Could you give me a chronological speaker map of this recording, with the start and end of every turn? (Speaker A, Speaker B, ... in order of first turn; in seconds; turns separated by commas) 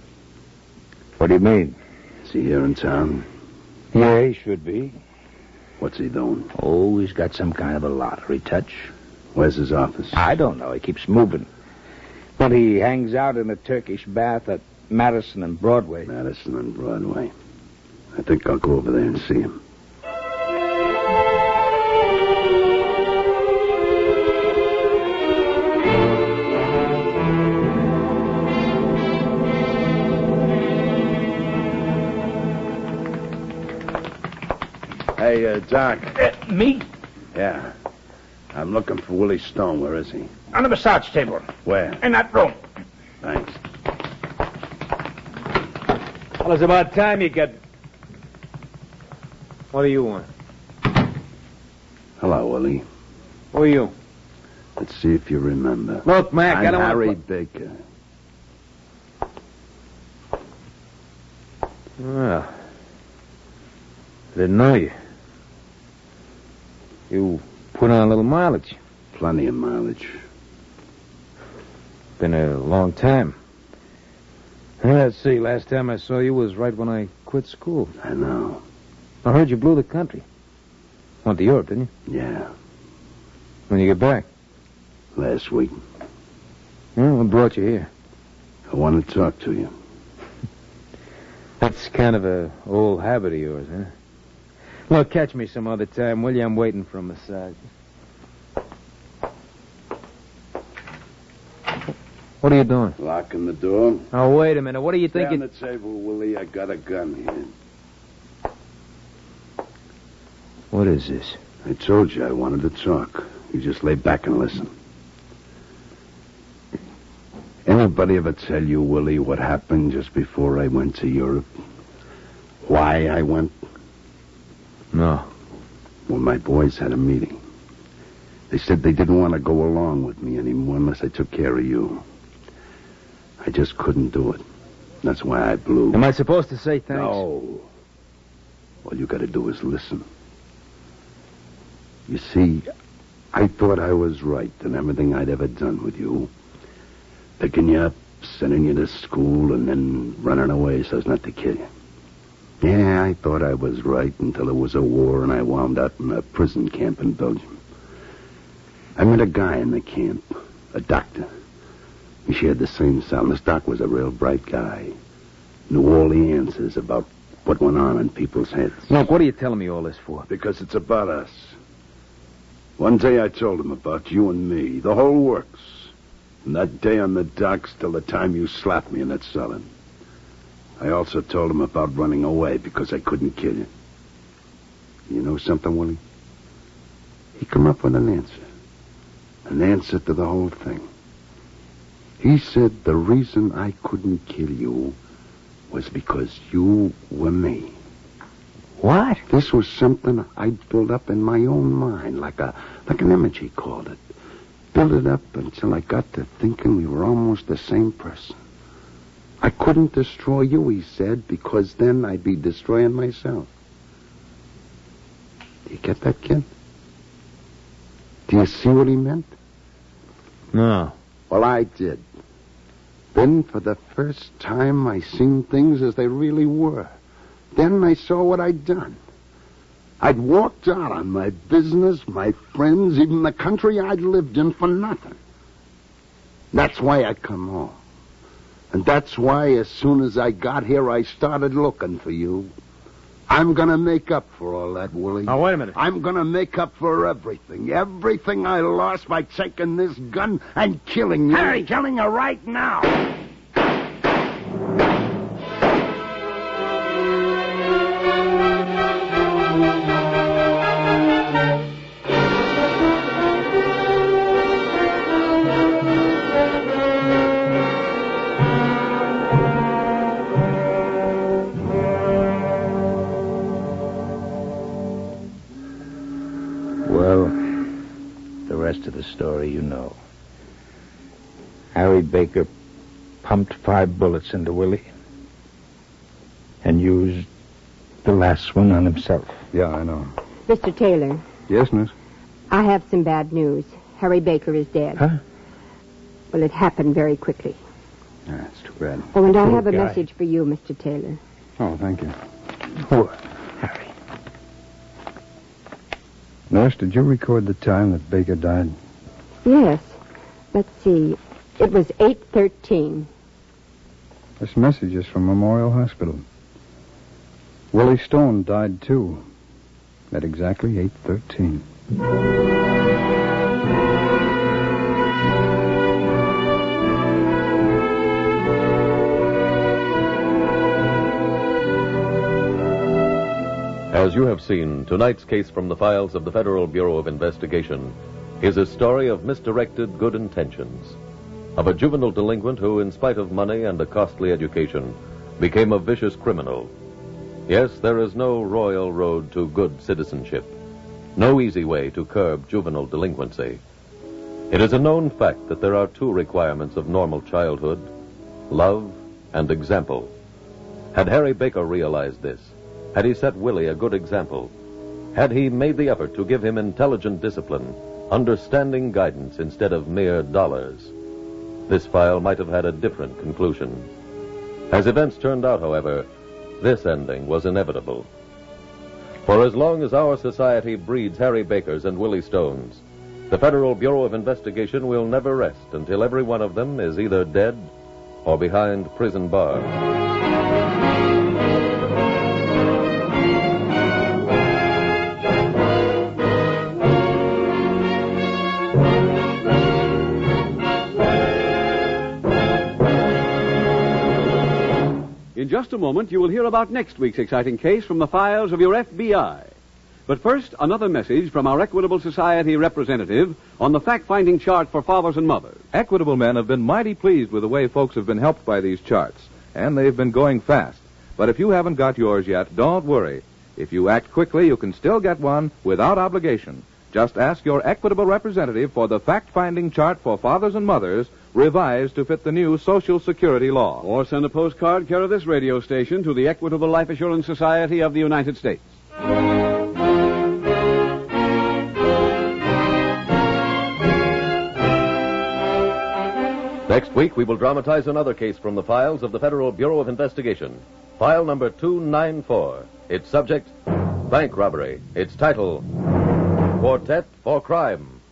Speaker A: 1.2-1.8, Speaker B: 2.2-3.3, Speaker A: 3.9-5.0, Speaker B: 5.8-6.5, Speaker A: 6.5-8.9, Speaker B: 9.3-10.2, Speaker A: 10.1-11.5, Speaker A: 12.4-16.1, Speaker B: 16.1-17.3, Speaker B: 18.1-19.6, Speaker B: 35.1-36.2, Speaker A: 36.2-36.8, Speaker B: 37.3-37.7, Speaker B: 38.5-40.3, Speaker A: 40.5-42.5, Speaker B: 41.6-42.0, Speaker B: 43.2-43.6, Speaker C: 46.4-47.5, Speaker C: 49.7-50.3, Speaker B: 52.2-52.8, Speaker C: 53.5-53.9, Speaker B: 54.8-57.8, Speaker C: 56.0-57.1, Speaker C: 62.0-62.5, Speaker C: 64.3-64.9, Speaker C: 67.1-68.8, Speaker B: 69.1-70.2, Speaker C: 72.2-73.3, Speaker C: 74.8-77.9, Speaker B: 78.0-78.6, Speaker C: 79.2-80.2, Speaker C: 81.2-81.9, Speaker B: 82.1-82.5, Speaker C: 83.7-84.2, Speaker B: 85.1-85.8, Speaker C: 87.0-87.9, Speaker B: 88.7-89.7, Speaker C: 91.6-93.9, Speaker C: 94.9-97.6, Speaker C: 102.4-103.0, Speaker B: 103.0-104.1, Speaker C: 104.1-105.4, Speaker B: 105.1-107.5, Speaker C: 110.7-111.4, Speaker B: 111.6-114.7, Speaker B: 117.6-121.5, Speaker B: 122.6-123.5, Speaker C: 124.9-125.3, Speaker B: 126.1-127.4, Speaker B: 128.5-132.0, Speaker B: 133.4-134.4, Speaker B: 135.0-136.0, Speaker C: 135.9-137.2, Speaker B: 136.9-137.7, Speaker B: 138.8-140.1, Speaker B: 142.1-142.7, Speaker B: 143.3-146.3, Speaker B: 147.4-151.7, Speaker B: 152.6-157.6, Speaker B: 158.9-161.3, Speaker B: 162.2-164.9, Speaker B: 165.7-168.9, Speaker C: 168.9-170.3, Speaker B: 170.3-171.6, Speaker B: 172.8-175.9, Speaker B: 176.4-179.7, Speaker B: 180.8-183.7, Speaker B: 185.1-186.0, Speaker B: 187.3-188.4, Speaker B: 189.5-190.9, Speaker B: 192.2-195.0, Speaker B: 195.7-197.7, Speaker C: 198.8-199.2, Speaker B: 199.2-204.0, Speaker B: 204.7-208.4, Speaker B: 209.4-213.5, Speaker B: 215.7-216.5, Speaker B: 218.3-219.3, Speaker C: 220.5-220.9, Speaker B: 221.3-222.0, Speaker B: 223.1-226.9, Speaker B: 227.5-229.0, Speaker B: 230.0-235.2, Speaker B: 236.5-237.8, Speaker B: 238.7-242.5, Speaker B: 243.3-253.0, Speaker C: 245.2-245.8, Speaker A: 276.8-277.4, Speaker A: 278.5-280.0, Speaker A: 281.7-282.5, Speaker A: 283.2-284.9, Speaker A: 286.6-287.3, Speaker A: 288.0-289.4, Speaker D: 289.5-290.1, Speaker E: 290.5-291.2, Speaker D: 291.5-291.9, Speaker E: 292.5-295.1, Speaker E: 296.3-297.6, Speaker D: 298.3-299.6, Speaker E: 299.1-301.2, Speaker D: 301.6-302.1, Speaker A: 302.9-303.1, Speaker D: 306.5-308.8, Speaker E: 309.4-310.0, Speaker E: 310.5-313.1, Speaker D: 314.4-316.2, Speaker D: 317.7-319.2, Speaker D: 320.1-321.6, Speaker F: 333.9-341.0, Speaker F: 341.6-346.7, Speaker F: 347.5-350.5, Speaker F: 351.1-353.6, Speaker F: 354.5-357.9, Speaker F: 358.5-360.1, Speaker F: 360.9-364.5, Speaker F: 365.1-370.9, Speaker F: 371.7-373.9, Speaker F: 374.7-376.1, Speaker F: 376.6-378.1, Speaker F: 379.2-387.7, Speaker F: 388.2-389.7, Speaker G: 405.3-409.5, Speaker G: 410.1-415.6, Speaker H: 415.7-433.8, Speaker G: 433.8-438.7, Speaker F: 446.7-453.5, Speaker F: 454.0-455.7, Speaker F: 456.6-458.0